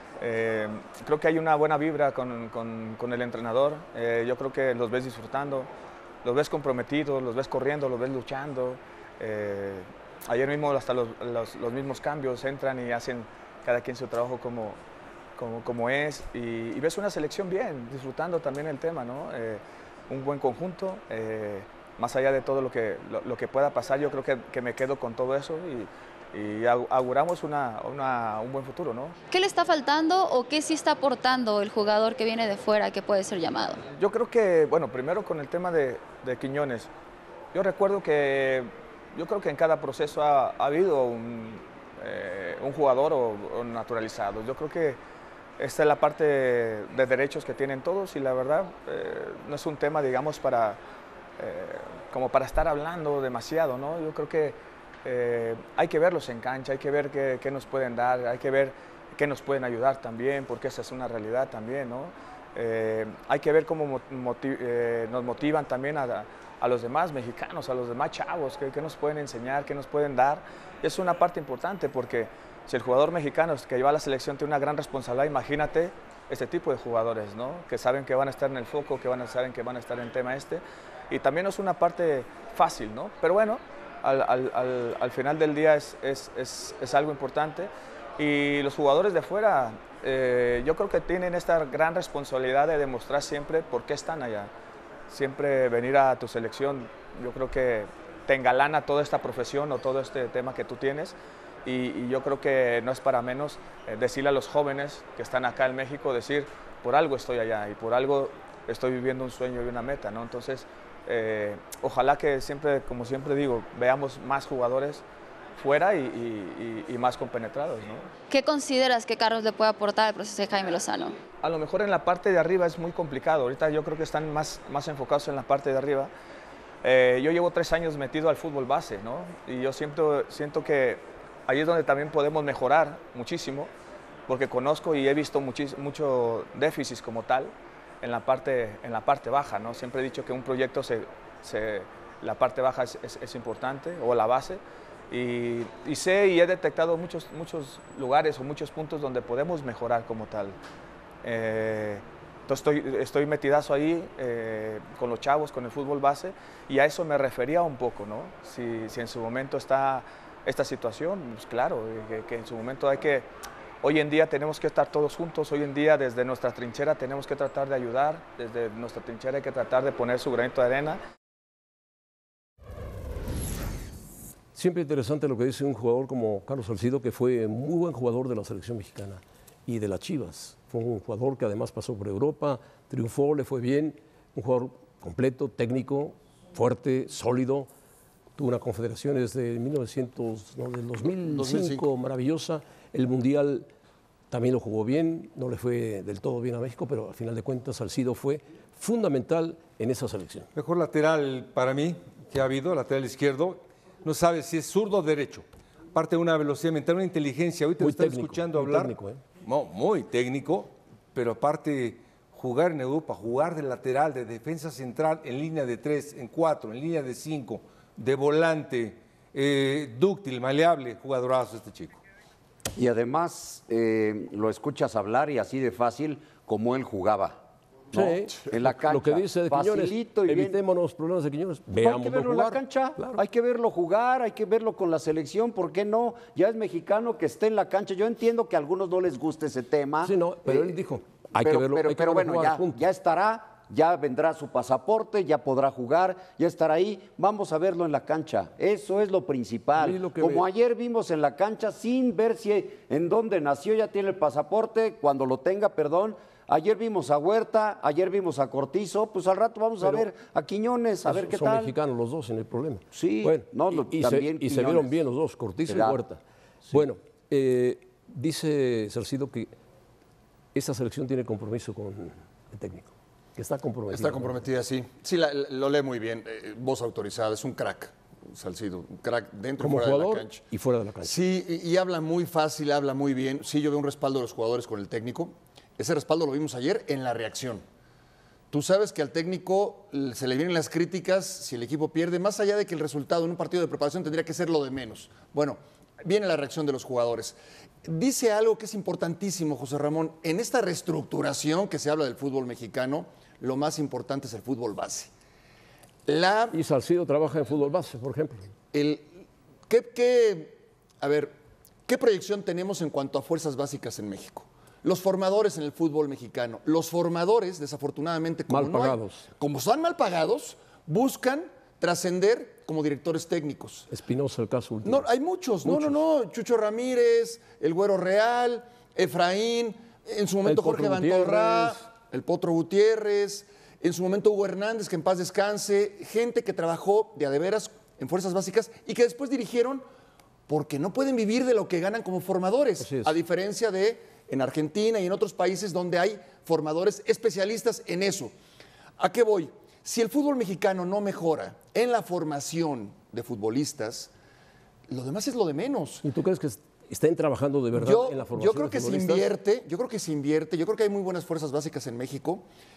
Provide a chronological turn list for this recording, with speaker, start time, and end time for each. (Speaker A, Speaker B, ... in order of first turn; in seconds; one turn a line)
Speaker A: 0.2-5.7
Speaker A: 6.2-14.8
Speaker A: 15.4-29.2
Speaker B: 29.3-33.8
Speaker A: 34.0-36.9
Speaker A: 37.5-45.0
Speaker A: 45.6-50.8
Speaker A: 51.4-94.5
Speaker A: 95.1-115.0
Speaker A: 115.6-118.1
Speaker B: 118.3-121.2
Speaker A: 121.4-126.1
Speaker A: 126.8-133.7
Speaker A: 134.3-150.6
Speaker A: 151.2-163.3
Speaker A: 163.8-171.0
Speaker C: 174.6-187.7
Speaker C: 188.4-193.7
Speaker D: 191.2-191.9
Speaker C: 194.3-200.5
Speaker E: 200.6-222.0
Speaker C: 207.8-209.2
Speaker F: 222.7-230.6
Speaker C: 227.9-233.2
Speaker F: 231.7-240.8
Speaker C: 240.0-242.8
Speaker F: 241.3-261.7
Speaker C: 249.8-250.4
Speaker C: 261.1-269.5
Speaker F: 262.9-265.0
Speaker F: 265.7-266.0
Speaker C: 270.6-274.4
Speaker D: 273.9-280.5
Speaker C: 279.6-281.2
Speaker D: 281.0-287.6
Speaker D: 288.5-305.1
Speaker D: 306.1-306.6
Speaker C: 306.5-308.5
Speaker D: 308.7-311.4
Speaker D: 311.9-323.9
Speaker C: 318.5-319.3
Speaker C: 323.9-325.1
Speaker D: 324.8-339.8
Speaker C: 325.6-326.0
Speaker C: 330.4-331.8
Speaker D: 340.5-348.3
Speaker C: 342.8-343.2
Speaker D: 349.0-354.1
Speaker D: 354.9-356.1
Speaker C: 356.0-359.3
Speaker D: 357.7-362.4